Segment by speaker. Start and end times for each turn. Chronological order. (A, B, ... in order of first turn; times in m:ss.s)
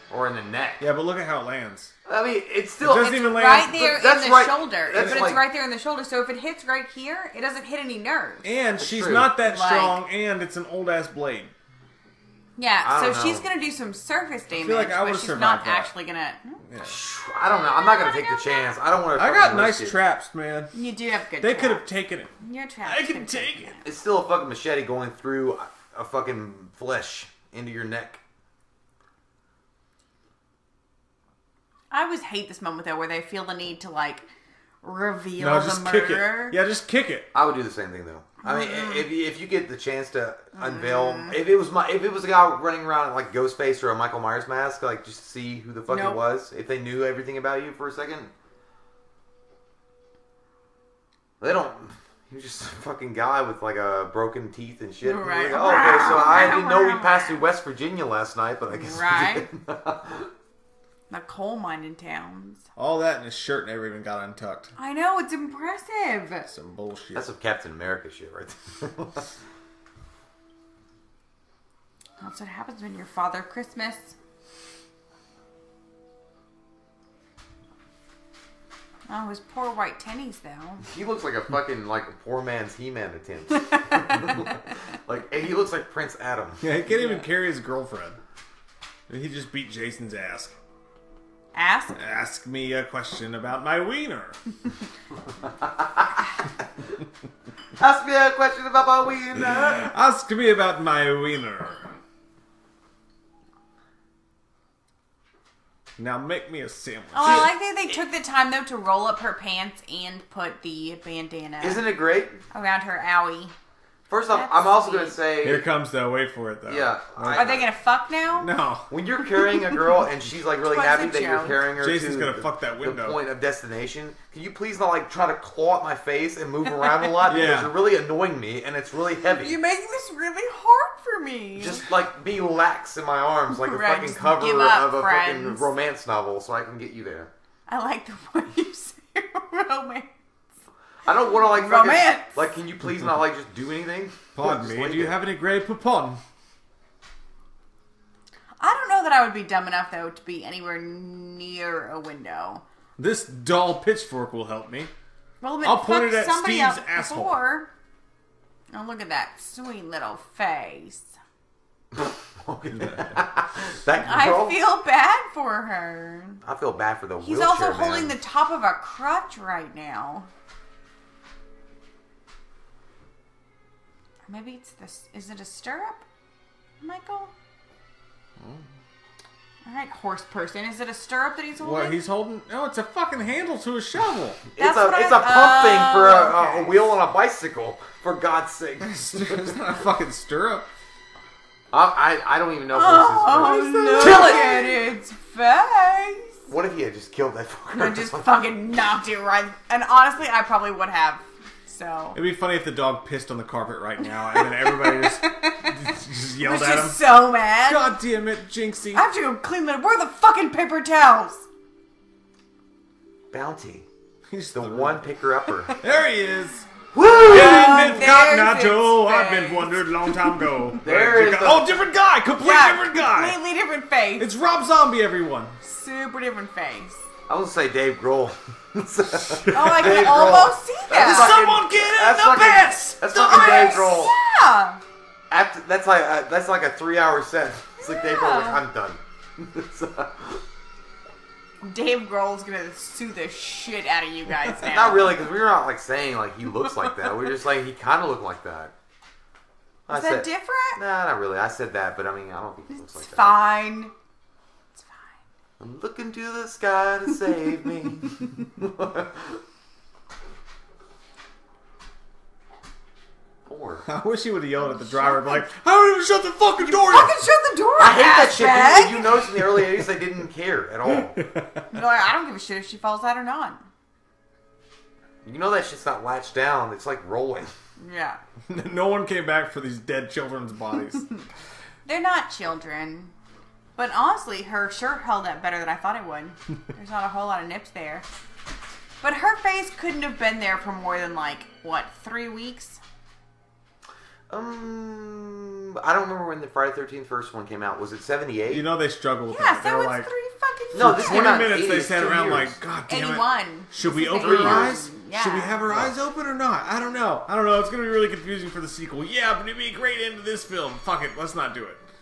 0:00.1-0:00.8 A
0:00.8-0:01.9 B
0:02.0-0:05.4 A
0:02.8-0:03.8 B
0:03.0-0:08.4 C
0:05.0-0:05.3 B
0:08.4-0:11.5 B
0:08.8-0:09.3 A
0:09.4-0:10.0 C
0:12.6-0:16.6 C
0:12.8-0:13.4 A
0:14.5-0:15.9 B
0:16.7-0:16.9 B
0:16.8-0:20.0 A
0:17.7-0:18.8 C
0:19.2-0:20.7 B
0:20.7-0:21.8 C
0:21.4-0:22.3 B
0:22.4-0:23.8 C
0:22.8-0:23.8 B
0:23.8-0:28.2 A
0:31.9-0:34.3 C
0:34.8-0:36.6 C
0:35.4-0:37.3 B
0:37.3-0:48.3 A
0:38.4-0:39.1 C
0:40.6-0:41.4 C
0:45.9-0:46.2 C
0:51.4-1:00.3 A
0:55.0-0:57.4 C
0:58.7-0:59.5 C
1:01.1-1:02.6 C
1:02.8-1:04.7 B
1:04.8-1:06.5 C
1:06.5-1:07.2 B
1:07.1-1:09.3 A
1:12.2-1:14.2 C
1:19.1-1:20.8 C
1:20.8-1:26.6 A
1:23.6-1:24.4 C
1:26.6-1:28.2 B
1:26.9-1:27.2 C
1:29.1-1:30.5 B
1:31.5-1:32.0 C
1:31.9-1:34.4 B
1:35.6-1:36.1 A
1:37.8-1:39.9 A
1:39.4-1:41.9 B
1:46.0-1:47.5 B
1:47.1-1:51.9 C
1:51.6-1:52.4 A
1:52.5-1:53.5 C
1:54.1-1:55.7 A
1:54.3-1:55.2 C
1:55.4-1:57.5 B
1:56.6-1:57.7 A
1:57.3-1:58.5 C
1:58.4-1:58.9 B
1:58.9-2:09.6 A
2:00.7-2:01.6 C
2:01.8-2:03.2 B
2:07.2-2:07.7 B
2:09.4-2:11.8 C
2:11.6-2:17.3 A
2:13.5-2:15.7 C
2:17.7-2:20.1 C
2:21.0-2:25.2 A
2:21.4-2:22.4 C
2:24.3-2:26.2 B
2:28.6-2:32.6 C
2:33.0-2:34.9 B
2:35.4-2:37.7 C
2:35.6-2:37.3 B
2:38.7-2:41.1 C
2:41.9-2:44.6 A
2:42.8-2:43.0 B
2:44.0-2:46.4 C
2:46.4-2:48.2 A
2:47.2-2:50.3 C
2:54.3-2:56.0 C
2:56.8-2:57.3 C
2:58.4-2:58.6 B
2:59.6-3:02.0 C
3:01.6-3:04.4 B
3:04.5-3:09.8 A
3:04.6-3:06.9 C
3:08.8-3:10.7 B
3:11.7-3:14.8 A
3:12.7-3:16.4 C
3:13.6-3:14.3 B
3:16.5-3:18.3 A
3:17.7-3:22.2 C
3:22.1-3:27.0 B
3:24.0-3:28.0 C
3:27.6-3:29.0 B
3:28.9-3:31.4 C
3:33.3-3:33.8 A
3:34.3-3:35.0 B
3:34.5-3:35.8 A
3:35.8-3:36.6 B
3:36.9-3:38.0 A
3:37.2-3:40.4 C
3:37.2-3:43.4 B
3:40.8-3:41.8 A
3:42.4-3:44.3 C
3:44.2-3:45.6 B
3:45.6-3:47.0 C
3:47.3-3:54.1 A
3:49.4-3:50.1 B
3:49.5-3:51.4 C
3:51.0-3:53.9 B
3:53.1-3:54.8 C
3:55.3-4:00.4 A
3:57.8-3:58.6 C
4:01.6-4:05.2 C
4:04.6-4:08.7 A
4:09.9-4:13.4 A
4:09.9-4:10.8 C
4:12.7-4:13.9 C
4:14.8-4:15.1 C
4:15.6-4:19.4 A
4:23.4-4:23.8 A
4:23.8-4:27.1 B
4:24.6-4:25.5 C
4:26.6-4:29.3 C
4:27.8-4:31.2 A
4:30.9-4:31.7 B
4:31.7-4:33.6 C
4:35.2-4:37.5 A
4:37.8-4:38.2 C
4:38.5-4:41.0 B
4:40.9-4:41.2 C
4:41.8-4:43.1 C
4:43.8-4:48.0 C
4:49.0-4:52.8 C
4:54.3-4:58.6 A
4:58.5-5:00.1 B
4:59.3-5:01.6 C
5:00.7-5:02.6 A
5:00.7-5:11.8 B
5:02.9-5:05.7 C
5:04.2-5:04.8 A